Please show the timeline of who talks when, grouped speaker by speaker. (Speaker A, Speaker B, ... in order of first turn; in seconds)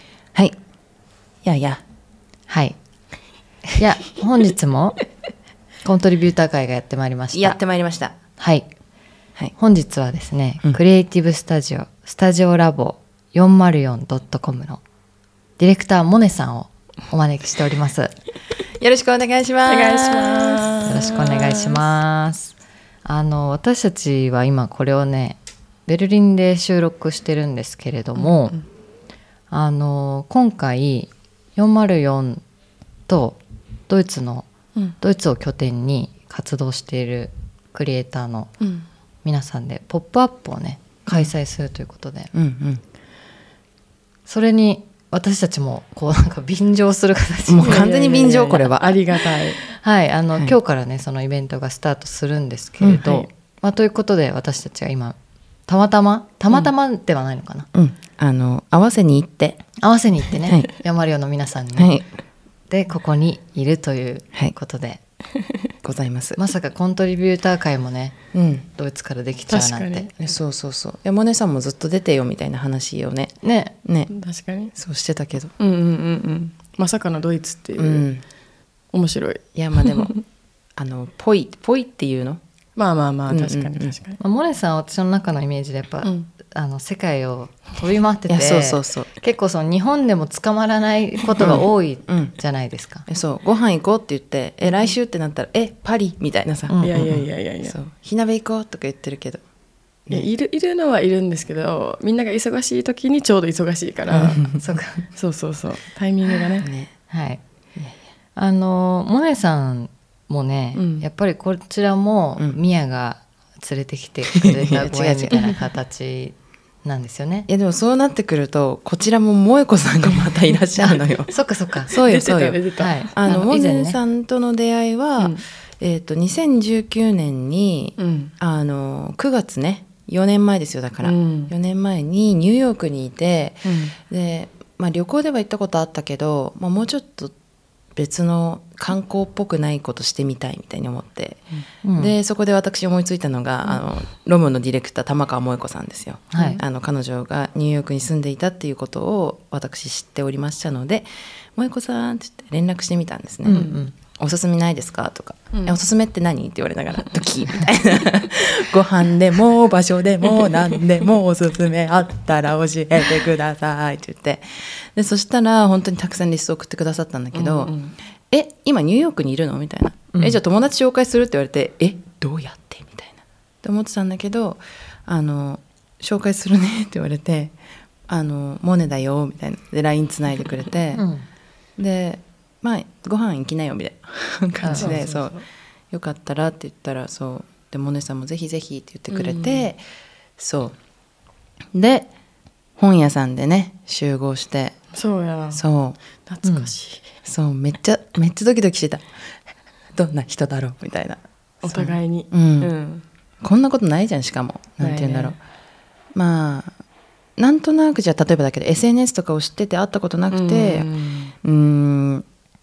Speaker A: 1.4-1.8, 7.3-8.1, 18.8-20.9, 42.3-42.8, 47.5-49.0, 52.8-53.1, 57.7-59.7, 60.4-60.7, 61.8-62.0, 65.8-66.4, 68.3-68.6, 70.2-74.1, 74.7-75.5, 77.8-78.2, 79.5-80.2, 80.8-82.4, 83.3-83.9, 88.3-89.1, 91.4-92.3, 93.0-99.4, 104.1-104.6, 106.6-106.9, 114.3-115.5, 117.5-137.3, 137.9-167.8, 168.3-177.6, 178.1-181.1, 181.8-185.4, 185.9-189.8, 190.4-190.8, 191.7-192.1, 192.8-194.8, 195.5-196.0, 197.2-199.0, 199.9-202.7, 203.4-205.4, 206.2-206.7, 207.4-210.9, 211.4-212.2
Speaker B: 2.5-2.8, 3.7-5.0, 5.8-7.6, 8.4-8.7, 9.6-14.8, 15.6-18.1, 20.8-28.6, 29.5-32.4, 33.1-34.5, 35.0-38.5, 39.2-42.3, 44.3-47.8, 49.6-55.1, 55.7-57.7, 59.8-62.0, 62.7-65.0, 66.3-68.2, 68.7-70.1, 73.4-73.7, 84.2-93.0, 96.7-97.0, 104.5-105.0, 107.1-107.4, 108.3-117.5, 120.8-121.9, 122.8-124.0, 141.8-142.1, 146.3-146.6, 153.4-153.9, 170.1-170.4, 180.9-181.2, 184.6-185.0, 196.4-196.7
Speaker C: 19.6-21.6, 28.1-28.6, 38.6-38.9, 47.6-49.6, 53.0-53.3, 69.5-70.3, 74.1-74.7, 75.6-78.1, 78.9-80.2, 82.8-84.2, 86.0-86.3, 96.8-97.8, 100.1-104.5, 105.2-106.7, 110.7-111.0, 121.9-123.3, 128.0-128.3, 131.0-131.5, 133.7-133.9, 153.5-153.8, 160.3-160.7, 167.3-167.9, 184.7-185.4, 189.1-189.7, 194.9-195.6, 196.2-197.1, 201.6-203.0, 204.8-205.3, 210.3-211.3